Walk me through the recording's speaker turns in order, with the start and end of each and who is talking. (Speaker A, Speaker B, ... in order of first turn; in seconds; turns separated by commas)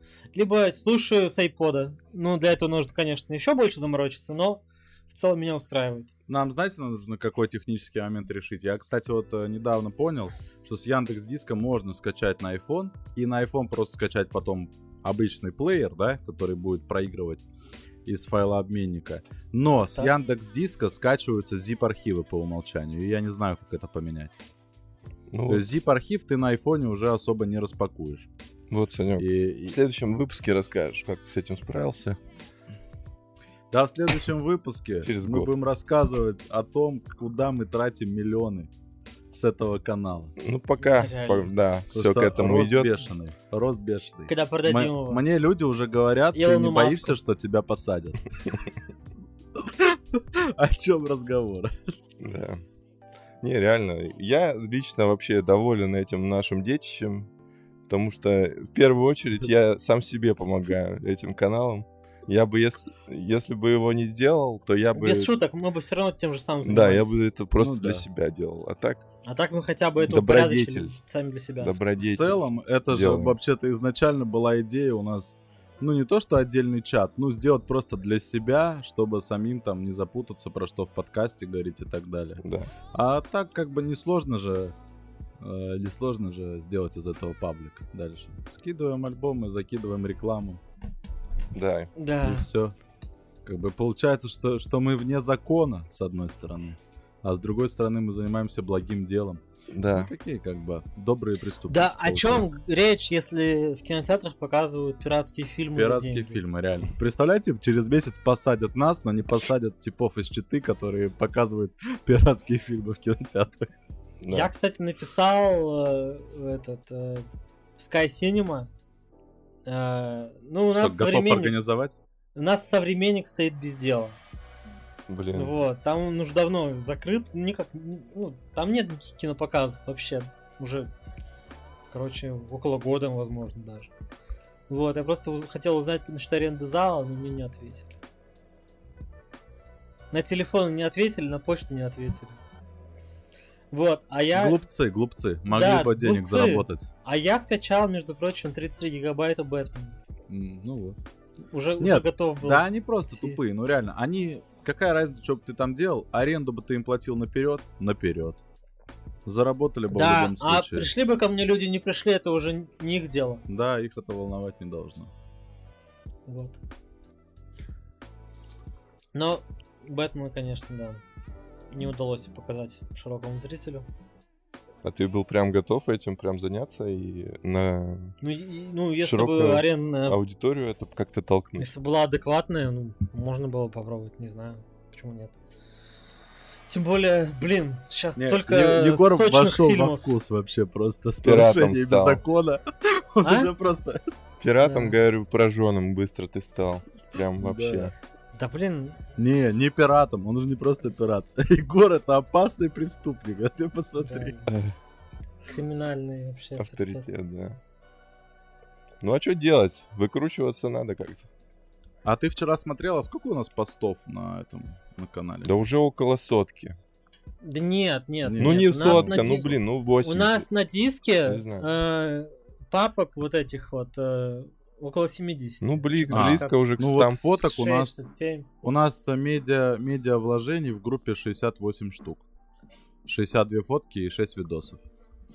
Speaker A: 0.3-6.1, Speaker B: 6.3-17.4, Speaker B: 18.0-24.3, Speaker C: 25.3-25.7, Speaker B: 25.5-28.3, Speaker C: 28.7-32.2, Speaker B: 29.2-29.8, Speaker B: 33.7-38.7, Speaker C: 35.0-35.5, Speaker B: 39.3-40.3, Speaker C: 40.4-43.1, Speaker A: 40.8-41.5, Speaker B: 41.9-48.2, Speaker A: 44.3-45.2, Speaker A: 46.3-47.2, Speaker B: 49.5-51.7, Speaker C: 52.2-52.6, Speaker C: 53.4-57.3, Speaker C: 57.9-65.3, Speaker A: 64.9-67.2, Speaker C: 66.6-69.0, Speaker B: 67.6-68.0, Speaker A: 69.2-71.8, Speaker C: 70.0-70.9, Speaker C: 71.6-73.3, Speaker B: 72.0-82.4, Speaker C: 82.4-82.7, Speaker B: 82.9-84.8, Speaker B: 85.4-90.6, Speaker C: 91.5-91.9, Speaker A: 92.0-92.5, Speaker B: 92.2-92.8, Speaker B: 93.4-102.5, Speaker C: 99.7-100.1, Speaker A: 101.7-106.4, Speaker B: 105.7-113.7, Speaker C: 114.2-114.5, Speaker A: 114.3-117.2, Speaker A: 117.8-118.7, Speaker A: 119.7-121.6, Speaker B: 120.7-122.0, Speaker A: 122.3-124.2, Speaker C: 125.1-125.5, Speaker A: 125.3-130.9, Speaker A: 131.9-133.9, Speaker A: 134.7-137.9, Speaker A: 140.1-142.4, Speaker A: 143.7-144.6, Speaker B: 144.3-146.9, Speaker A: 145.5-150.0, Speaker B: 150.3-151.0, Speaker A: 151.5-153.4, Speaker B: 151.8-158.4, Speaker B: 159.2-160.9, Speaker A: 159.9-163.4, Speaker B: 163.5-165.1, Speaker A: 166.2-166.6, Speaker A: 169.1-171.0, Speaker A: 171.7-173.9, Speaker C: 174.8-178.2, Speaker A: 178.2-180.2, Speaker C: 179.0-181.7, Speaker A: 181.6-185.3, Speaker A: 186.7-190.0, Speaker B: 188.2-194.0, Speaker C: 191.2-192.2, Speaker A: 193.2-193.5, Speaker C: 194.4-197.9, Speaker A: 194.6-194.9, Speaker B: 197.4-197.9, Speaker A: 198.3-199.5, Speaker B: 199.2-204.3, Speaker A: 204.0-204.5, Speaker C: 204.4-204.7, Speaker A: 205.5-207.1, Speaker C: 206.6-207.6, Speaker C: 209.0-211.3, Speaker B: 212.0-215.5, Speaker C: 215.4-216.8, Speaker A: 217.4-219.5, Speaker B: 218.2-219.6, Speaker C: 218.4-220.5, Speaker A: 220.0-226.6, Speaker C: 221.2-221.7, Speaker C: 225.6-227.4, Speaker B: 226.1-228.0, Speaker A: 227.4-228.5, Speaker B: 228.6-232.2, Speaker B: 233.0-234.8